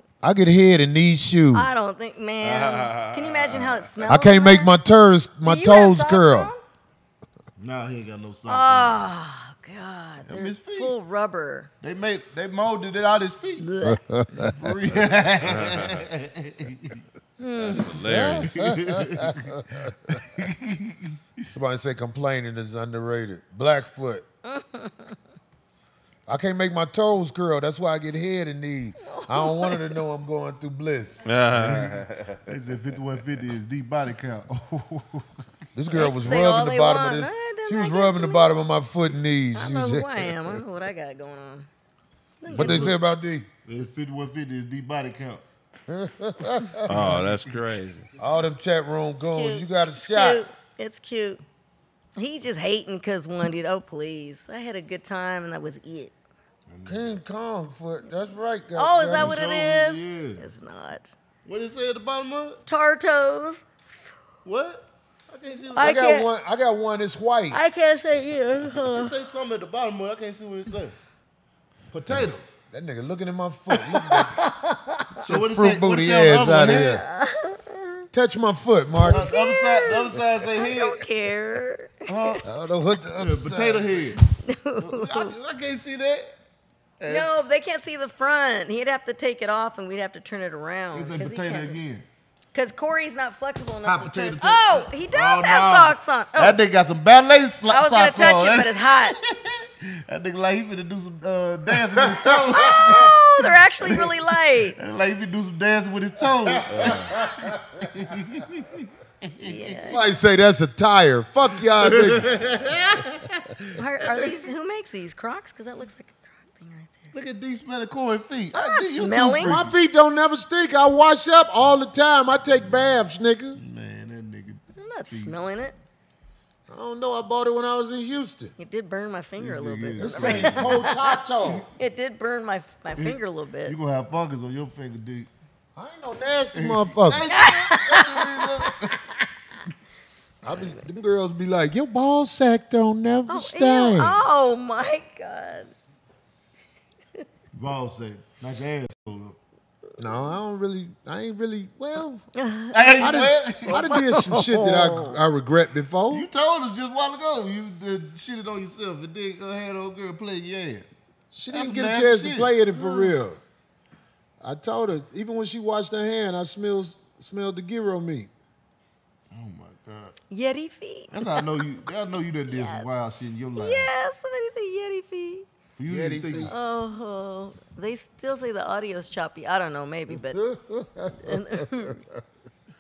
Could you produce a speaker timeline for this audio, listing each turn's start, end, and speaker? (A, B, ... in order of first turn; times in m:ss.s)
0:00.2-0:01.7 A
0:01.5-0:04.7 B
0:02.4-0:03.9 C
0:04.1-0:06.5 A
0:05.4-0:06.6 B
0:07.6-0:09.0 D
0:08.5-0:11.7 B
0:10.3-0:10.9 D
0:11.8-0:13.7 D
0:13.6-0:14.0 B
0:13.8-0:15.0 A
0:14.3-0:17.0 D
0:15.4-0:16.0 C
0:17.4-0:18.0 B
0:17.6-0:18.5 C
0:18.0-0:20.2 A
0:18.4-0:19.5 D
0:20.1-0:21.4 D
0:21.5-0:24.2 A
0:24.4-0:25.2 B
0:26.3-0:31.3 A
0:29.0-0:30.0 B
0:31.3-0:32.5 C
0:31.5-0:35.3 D
0:35.8-0:40.6 A
0:35.9-0:38.5 B
0:39.6-0:41.7 B
0:42.4-0:43.0 B
0:42.5-0:43.0 D
0:42.5-0:43.5 A
0:43.6-0:45.4 D
0:45.9-0:47.2 A
0:46.9-0:48.1 C
0:46.9-0:47.6 D
0:48.2-0:50.4 A
0:49.2-0:51.4 B
0:52.2-0:56.1 B
0:56.7-0:57.2 D
0:56.8-0:59.4 A
0:58.8-1:01.2 B
0:59.1-1:00.5 D
1:01.4-1:02.6 D
1:02.7-1:03.7 B
1:04.4-1:06.0 D
1:05.8-1:06.3 B
1:05.8-1:07.6 A
1:07.5-1:09.1 B
1:08.7-1:11.0 D
1:11.9-1:12.5 D
1:12.5-1:14.4 A
1:13.7-1:15.3 B
1:15.2-1:17.0 D
1:15.2-1:17.0 A
1:16.7-1:18.0 B
1:18.1-1:19.3 A
1:19.0-1:21.1 D
1:19.0-1:22.4 B
1:22.1-1:22.5 D
1:22.4-1:24.2 A
1:23.2-1:24.2 D
1:24.4-1:25.3 B
1:24.8-1:26.3 D
1:27.0-1:27.3 D
1:27.0-1:31.8 B
1:30.9-1:32.1 D
1:32.5-1:36.6 B
1:33.8-1:49.9 D
1:37.7-1:39.2 B
1:42.5-1:44.8 B
1:46.7-1:47.1 C
1:49.4-1:50.0 B
1:49.9-1:52.4 A
1:51.8-1:54.4 D
1:53.8-1:57.1 B
1:57.1-1:59.7 D
1:58.6-1:59.6 B
1:59.4-2:03.6 A
2:03.6-2:05.4 D
2:04.8-2:05.8 B
2:06.7-2:08.5 A
2:08.6-2:13.8 B
2:09.4-2:10.9 D
2:10.0-2:11.7 A
2:13.0-2:15.3 D
2:15.8-2:17.3 A
2:16.6-2:19.0 D
2:17.3-2:19.0 B
2:20.4-2:24.2 A
2:23.3-2:25.7 B
2:27.5-2:29.4 D
2:30.0-2:32.2 A
2:32.3-2:33.1 B
2:32.7-2:33.8 D
2:33.0-2:36.3 A
2:33.7-2:35.2 B
2:36.1-2:40.9 D
2:41.3-2:43.4 A
2:41.5-2:42.5 D
2:42.8-2:43.2 B
2:44.4-2:48.3 A
2:49.3-2:50.1 D
2:50.3-2:51.6 B
2:51.1-2:53.9 D
2:52.5-2:52.9 B
2:53.6-2:55.5 B
2:55.8-2:56.5 D
2:55.9-2:56.5 A
2:56.4-3:00.4 B
3:00.4-3:01.3 A
3:01.3-3:02.0 B